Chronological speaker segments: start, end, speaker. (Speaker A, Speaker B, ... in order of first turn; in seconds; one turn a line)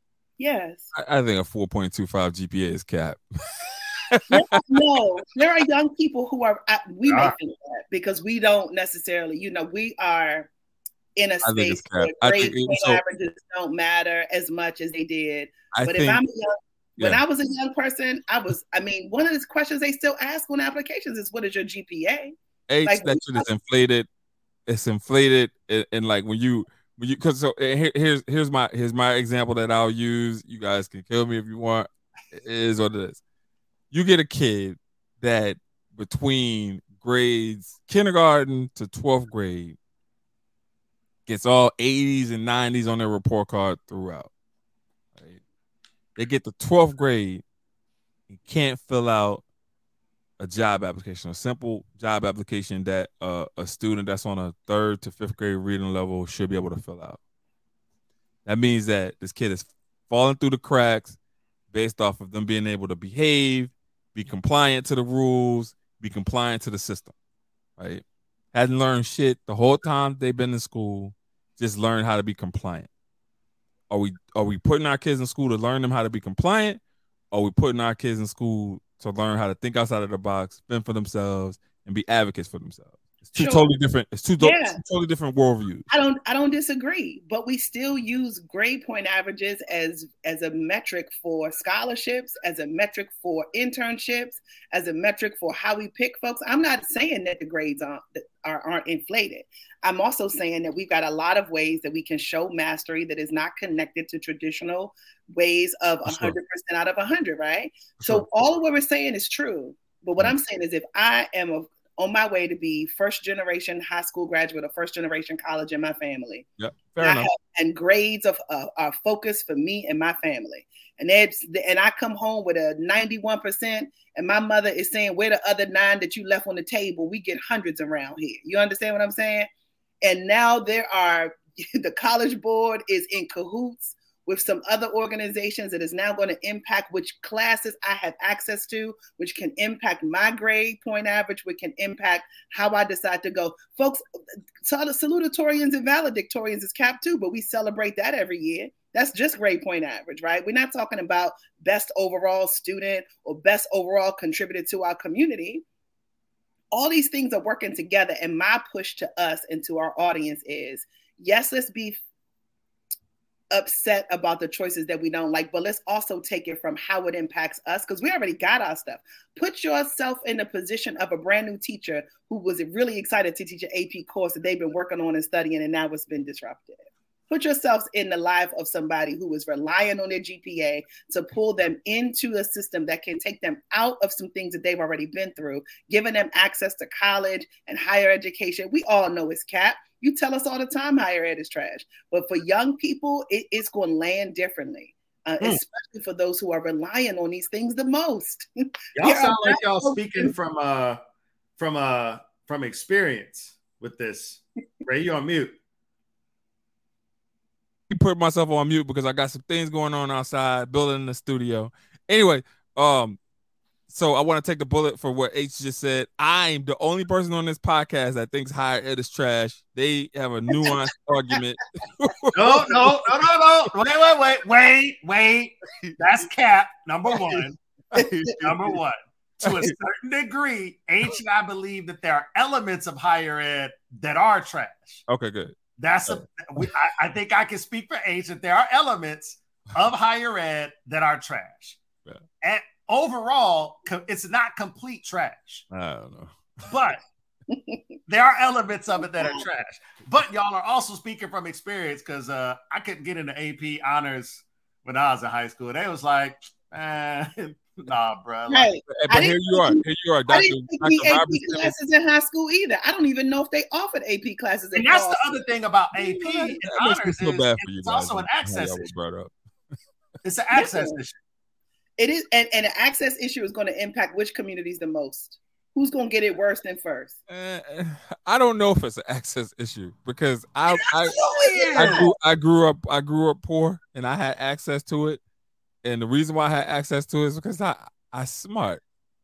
Speaker A: 0.4-0.9
Speaker B: 0.9-4.4
Speaker A: 4.3-10.5
Speaker C: 7.1-7.3
Speaker A: 11.2-23.4
Speaker B: 11.4-13.0
Speaker B: 15.7-16.2
Speaker B: 22.7-24.1
Speaker B: 24.7-33.2
Speaker B: 33.9-39.8
Speaker B: 41.3-44.3
Speaker B: 45.1-45.4
Speaker B: 46.2-47.4
Speaker B: 48.3-49.4
Speaker B: 50.4-57.2
Speaker B: 58.5-61.2
Speaker B: 61.7-67.1
Speaker B: 67.8-72.9
Speaker B: 73.9-76.8
Speaker B: 77.3-85.9
Speaker A: 83.4-83.7
Speaker A: 84.4-84.8
Speaker A: 85.9-116.5
Speaker B: 106.0-106.4
Speaker B: 108.0-108.2
Speaker B: 116.6-117.3
Speaker A: 117.0-129.5
Speaker A: 130.0-144.0
Speaker A: 144.6-155.6
Speaker A: 156.7-162.0
Speaker A: 163.5-198.4
Speaker C: 198.9-201.0
Speaker A: 199.0-200.3
Speaker C: 201.6-205.5
Speaker B: 207.9-213.2
Speaker B: 213.9-222.7
Speaker C: 222.3-227.6
Speaker A: 222.5-222.8
Speaker B: 227.9-228.5
Speaker A: 227.9-228.3
Speaker C: 228.4-235.0
Speaker B: 229.4-229.7
Speaker B: 235.1-236.7
Speaker C: 235.8-241.8
Speaker C: 242.4-245.6
Speaker B: 245.7-246.7
Speaker C: 246.7-247.0
Speaker A: 247.5-247.8
Speaker C: 248.1-258.7
Speaker A: 249.2-249.4
Speaker A: 258.5-265.4
Speaker B: 258.9-261.7
Speaker C: 264.7-268.9
Speaker B: 265.9-269.3
Speaker C: 270.2-271.2
Speaker A: 270.5-271.0
Speaker A: 272.0-277.1
Speaker B: 277.3-285.2
Speaker C: 280.9-282.1
Speaker A: 281.1-282.1
Speaker B: 285.8-288.8